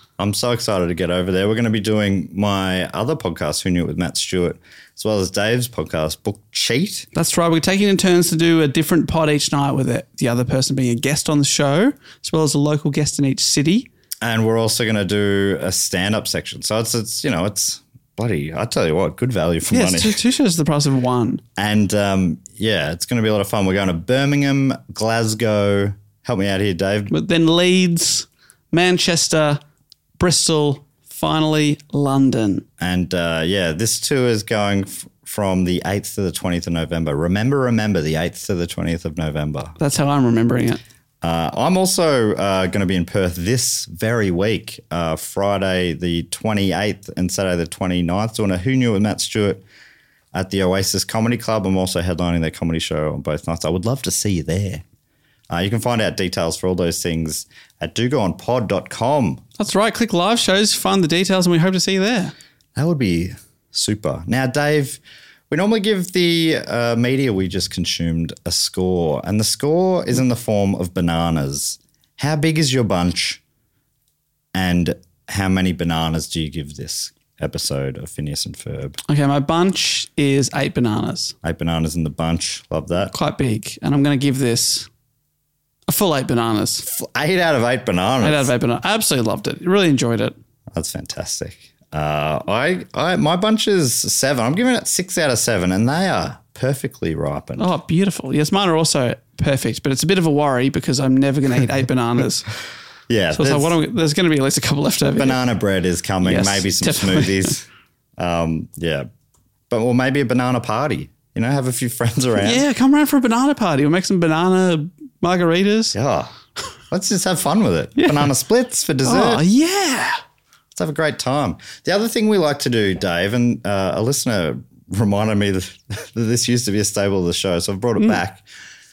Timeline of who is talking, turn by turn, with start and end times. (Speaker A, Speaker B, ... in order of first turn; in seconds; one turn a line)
Speaker A: 0.2-7.1
Speaker B: 7.1-13.9
Speaker A: 14.2-20.2
Speaker B: 19.7-21.4
Speaker A: 21.6-27.1
Speaker B: 27.1-29.6
Speaker B: 30.2-32.6
Speaker A: 32.8-39.8
Speaker B: 39.8-40.8
Speaker A: 41.2-49.6
Speaker A: 50.3-54.8
Speaker A: 55.5-59.4
Speaker B: 59.6-62.3
Speaker A: 62.8-73.4
Speaker A: 74.5-79.0
Speaker B: 79.1-81.3
Speaker A: 81.4-83.1
Speaker B: 83.1-84.9
Speaker B: 85.9-86.9
Speaker A: 86.9-88.5
Speaker B: 88.2-90.3
Speaker A: 90.7-97.7
Speaker B: 97.6-102.5
Speaker A: 103.1-103.8
Speaker B: 103.3-105.4
Speaker A: 105.2-107.7
Speaker B: 106.2-107.5
Speaker A: 108.2-109.1
Speaker A: 109.7-112.7
Speaker B: 112.4-116.0
Speaker A: 115.9-116.3
Speaker A: 116.9-119.4
Speaker B: 118.0-118.3
Speaker B: 119.0-120.2
Speaker A: 120.7-128.4